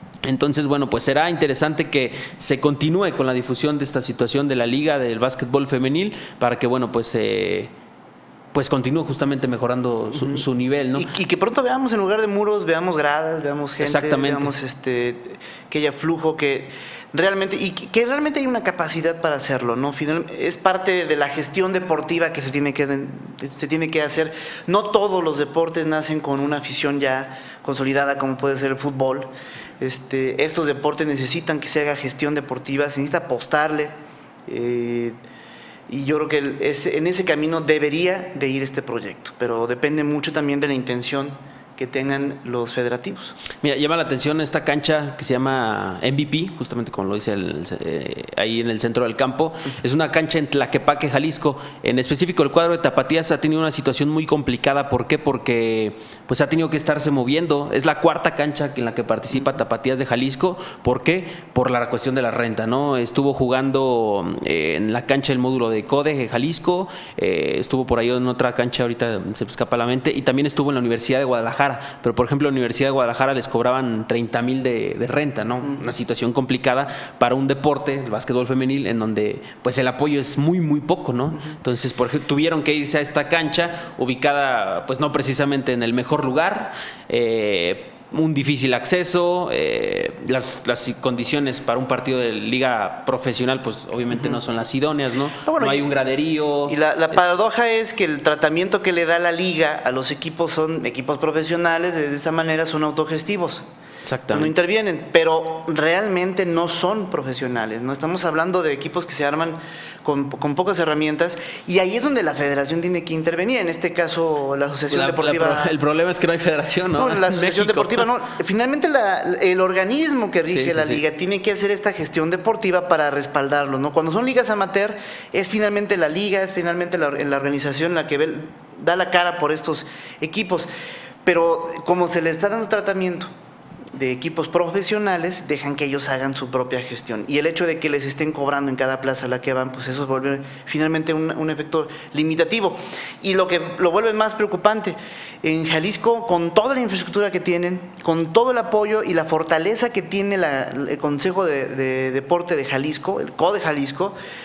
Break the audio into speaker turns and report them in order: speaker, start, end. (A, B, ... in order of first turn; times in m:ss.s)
0:00.2-0:07.7 A
0:08.5-0:11.1 A
0:10.9-0:33.9 B
0:13.8-0:14.5 A
0:34.5-0:35.2 B
0:35.9-0:43.4 B
0:43.6-1:36.8 A
1:34.1-1:34.4 B
1:35.4-1:36.0 B
1:36.7-1:43.6 B
1:44.1-1:44.5 A
1:44.3-1:55.7 B
1:54.9-1:58.1 A
1:57.0-2:10.7 B
2:00.5-2:01.0 A
2:11.2-2:13.3 B
2:13.9-2:34.2 B